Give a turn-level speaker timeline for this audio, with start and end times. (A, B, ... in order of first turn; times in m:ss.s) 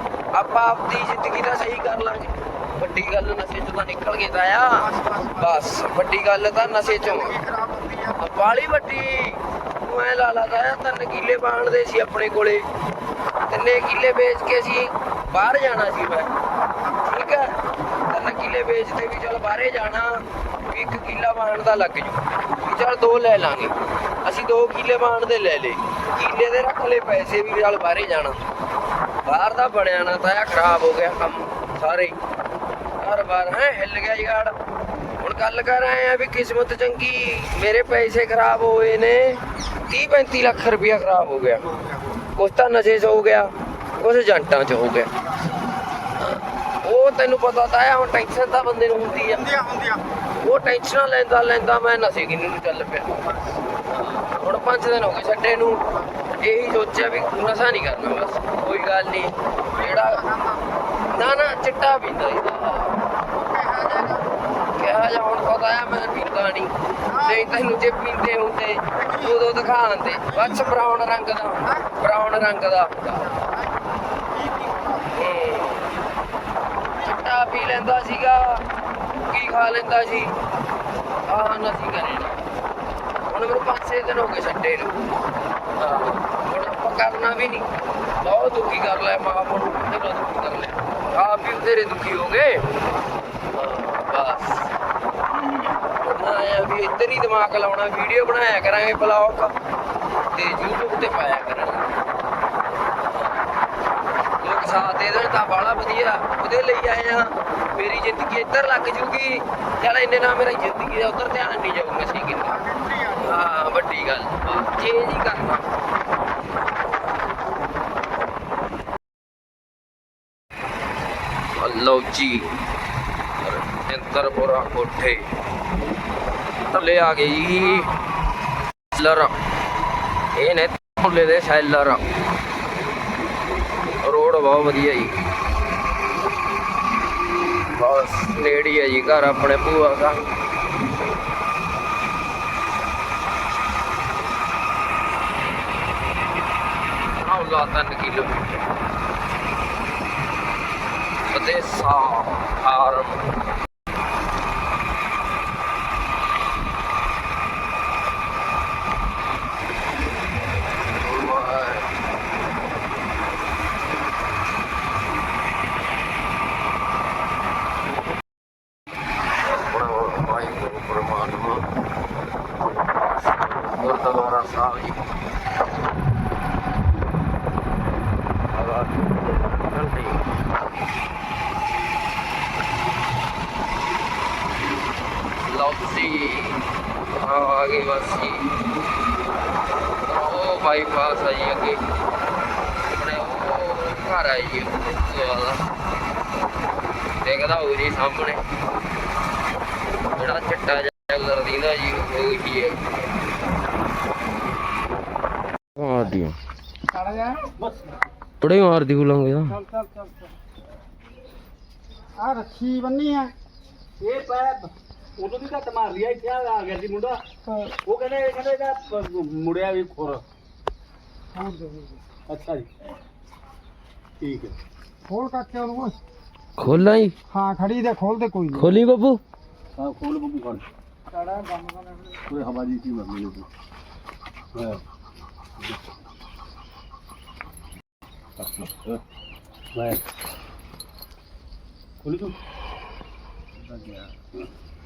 0:00.3-0:04.9 A
0:04.7-0:05.8 B
0:05.4-0:07.4 A
0:06.6-0:08.2 B
0:08.2-0:12.7 A
0:13.5-0:16.3 A
0:17.1-0:17.6 A
0:18.1-0:28.4 A
0:29.3-0:32.2 A
0:33.0-0:34.6 A
0:35.2-0:41.6 A
0:41.6-0:42.2 B
0:42.4-0:45.1 A
0:45.2-0:45.7 B
0:46.2-0:49.4 A
0:49.3-0:50.1 B
0:50.4-0:53.2 A
0:53.1-0:53.6 B
0:53.9-0:55.8 A
0:55.9-0:56.2 B
0:56.4-1:00.2 A
0:59.7-1:00.9 B
1:01.1-1:03.0 A
1:03.2-1:04.4 B
1:04.8-1:13.2 A
1:07.0-1:07.5 B
1:09.0-1:09.4 B
1:10.0-1:10.9 B
1:11.6-1:11.9 B
1:13.1-1:15.2 B
1:15.2-1:15.9 A
1:17.0-1:18.6 A
1:19.3-1:20.3 A
1:21.3-1:22.4 A
1:23.3-1:25.0 A
1:25.8-1:27.7 A
1:28.2-1:32.6 A
1:33.5-1:34.7 A
1:35.5-1:39.6 A
1:40.3-1:41.9 A
1:44.4-1:52.6 A
1:52.4-1:53.5 B
1:53.2-1:55.7 A
2:01.6-2:02.6 A
2:03.4-2:05.3 A
2:06.6-2:07.9 A
2:07.6-2:08.3 B
2:08.9-2:09.3 A
2:10.4-2:12.0 A
2:14.0-2:15.2 A
2:17.7-2:20.2 A
2:27.2-2:28.6 A
2:31.3-2:33.3 A
2:41.0-2:41.9 A
2:49.5-2:51.7 A
2:52.6-2:55.1 A
2:58.5-3:00.3 A
3:05.5-3:06.6 A
3:07.2-3:08.7 A
3:10.0-3:11.8 A
3:12.9-3:15.7 A
3:17.2-3:18.4 A
3:20.2-3:23.0 A
3:25.8-3:26.4 A
3:26.9-3:27.5 B
3:27.6-3:27.9 C
3:28.4-3:29.6 A
3:29.5-3:30.3 B
3:32.2-3:33.3 B
3:34.0-3:40.2 C
3:41.3-3:42.0 B
3:42.3-3:42.7 C
3:44.2-3:44.6 C
3:45.1-3:46.0 B
3:46.6-3:47.2 A
3:47.3-3:48.8 B
3:48.6-3:49.2 A
3:49.8-3:50.6 C
3:51.1-3:52.1 B
3:52.3-3:53.5 C
3:54.6-3:54.8 C
3:58.4-3:59.0 C
3:59.7-4:00.0 C
4:02.0-4:02.4 C
4:03.7-4:04.1 C